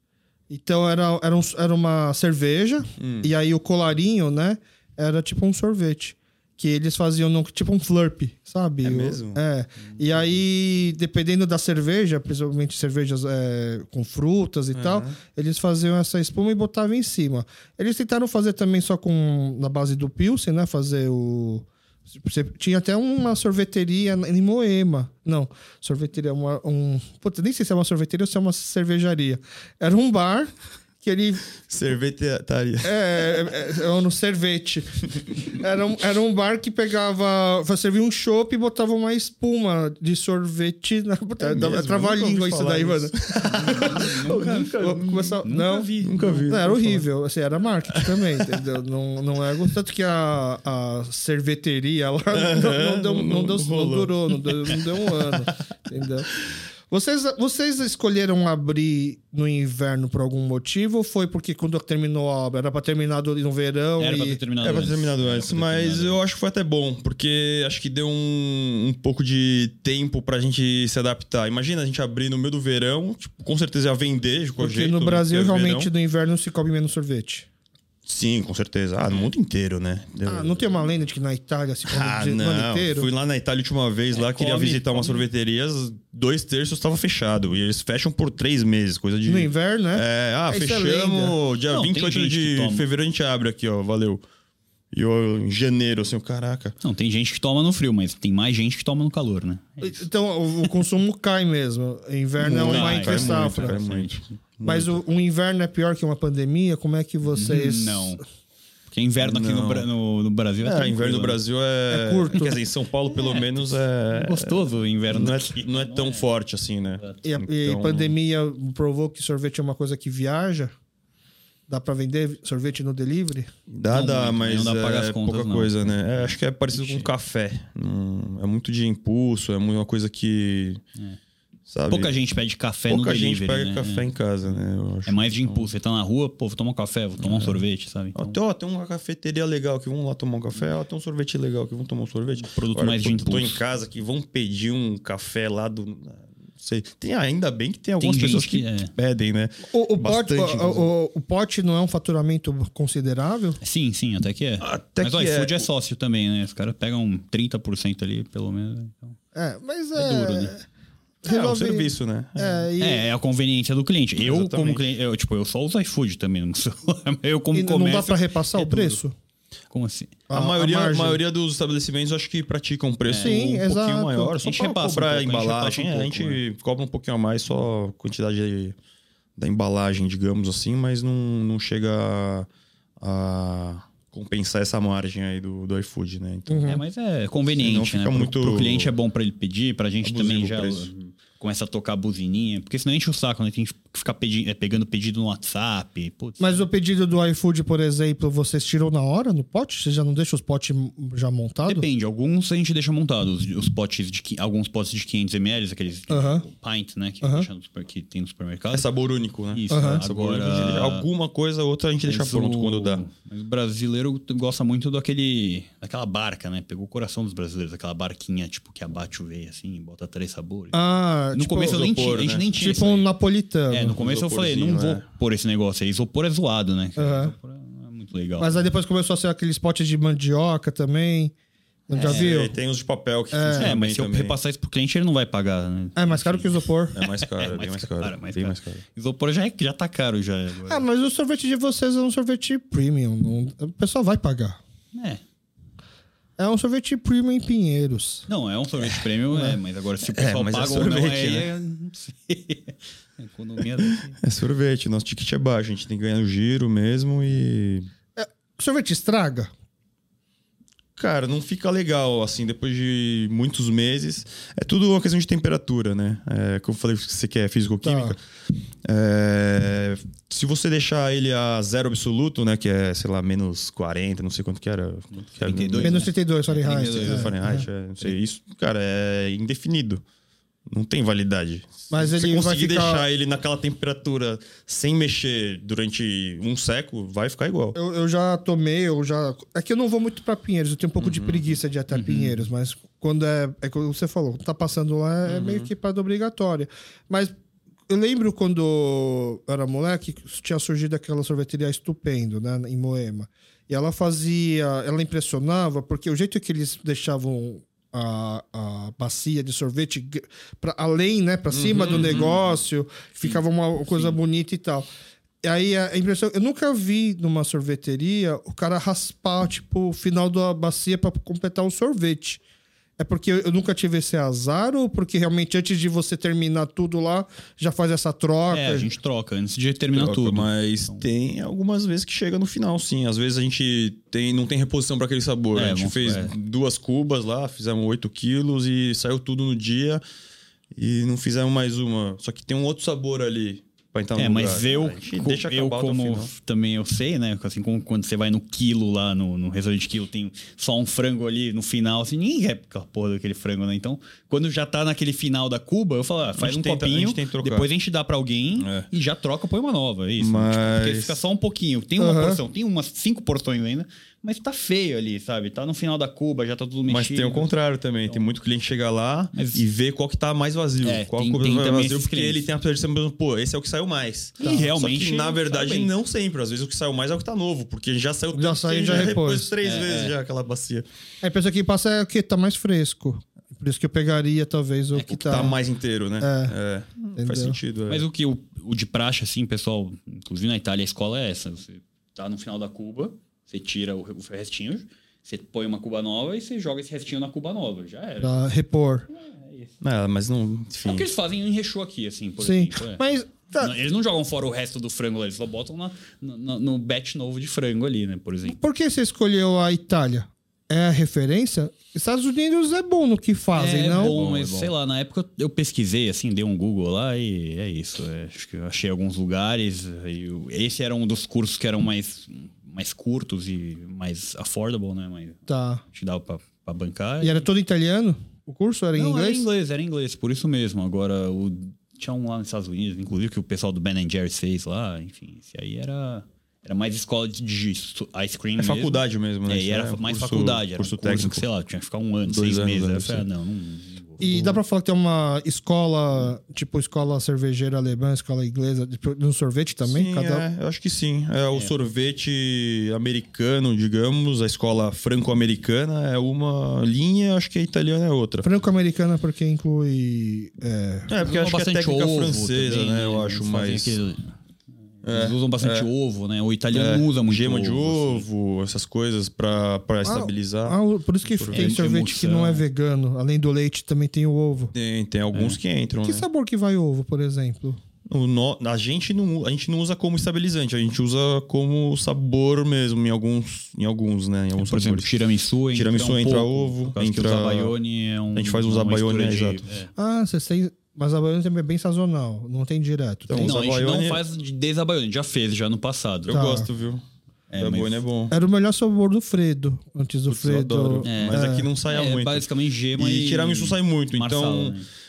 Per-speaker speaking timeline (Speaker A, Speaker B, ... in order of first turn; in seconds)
Speaker A: 0.5-30.5, 31.0-31.5, 32.8-44.1, 44.7-45.9, 46.5-56.3, 56.9-64.4, 74.6-77.5, 80.3-83.1, 89.3-91.4, 99.8-103.7, 104.6-108.2, 111.9-112.6, 117.2-120.7, 121.7-123.5, 149.7-153.6, 159.3-160.6, 161.2-163.1, 167.5-169.2, 170.3-171.2, 173.2-174.4, 186.5-186.8, 196.4-201.8, 206.1-206.4, 207.2-207.5, 209.7-210.0, 220.7-224.0, 227.0-227.3, 228.4-231.3, 231.9-232.5, 233.3-233.7, 236.0-237.0, 240.7-244.6, 246.4-248.3, 258.2-259.5, 267.8-268.2, 275.8-277.7, 281.9-283.1, 287.8-297.3, 297.9-314.9, 315.4-322.4, 323.0-328.9, 362.0-362.4, 378.3-379.5, 381.2-385.6, 386.2-386.6, 387.2-387.6, 398.2-399.1, 402.4-403.7, 408.5-414.2, 425.5-425.8, 427.2-429.5, 444.2-450.5, 458.4-461.1, 470.0-474.7, 476.0-477.8, 490.0-493.6, 496.3-496.7, 498.3-501.7
Speaker B: 3.0-3.3, 8.8-9.4, 14.7-15.2, 31.6-33.0, 41.4-45.4, 46.0-47.0, 47.9-48.6, 52.3-55.1, 64.6-75.9, 78.1-80.6, 81.9-94.2, 94.9-96.8, 102.4-105.0, 109.2-109.9, 110.6-118.2, 123.7-130.8, 131.7-132.2, 132.9-135.7, 137.2-137.6, 138.2-150.9, 154.6-155.7, 161.2-162.7, 164.2-164.8, 170.3-178.8, 179.4-182.5, 183.0-186.8, 187.6-188.9, 190.0-190.9, 208.7-213.1, 221.7-222.5, 223.9-225.1, 232.0-234.4, 236.9-238.8, 250.0-251.5, 253.8-257.9, 261.0-268.2, 268.9-276.1, 276.7-280.0, 280.7-287.8, 291.0-291.6, 295.2-295.7, 311.5-312.3, 329.9-340.0, 340.8-346.3, 356.4-357.7, 358.6-358.9, 360.2-361.2, 366.9-380.9, 385.2-388.1, 399.8-401.1, 413.9-414.7, 438.6-441.5, 442.3-443.3, 449.8-458.5, 461.1-464.0, 465.0-465.9, 466.7-471.8, 474.7-476.3, 478.1-485.1, 485.7-487.7, 488.4-489.7, 493.3-494.2, 496.3-497.0, 497.6-498.3, 500.3-504.8
Speaker C: 9.8-10.1, 43.5-46.6, 64.0-66.2, 84.1-85.2, 91.7-92.8, 96.8-100.1, 102.6-104.2, 107.3-108.2, 108.9-111.4, 113.1-116.3, 123.9-127.1, 131.9-134.1, 135.1-138.4, 142.4-143.6, 148.0-148.9, 153.6-159.2, 159.9-160.6, 162.8-169.0, 169.7-170.2, 173.1-173.4, 174.4-176.4, 186.7-196.7, 201.7-208.9, 209.5-211.1, 212.1-220.8, 221.3-223.1, 223.7-228.7, 231.9-232.4, 233.6-240.8, 244.9-245.2, 248.3-254.2, 275.1-277.4, 291.9-292.5, 311.8-312.4, 328.5-331.1, 335.6-336.3, 344.2-367.5, 369.3-369.6, 370.8-372.5, 374.4-375.9, 379.6-380.1, 384.9-385.6, 387.9-398.4, 399.1-399.7, 400.8-403.0, 403.6-408.6, 413.5-427.5, 428.9-444.4, 461.2-464.4, 465.0-468.2, 471.5-472.6, 475.3-475.6, 484.6-489.9, 493.3-496.4, 497.5-498.0, 501.1-504.9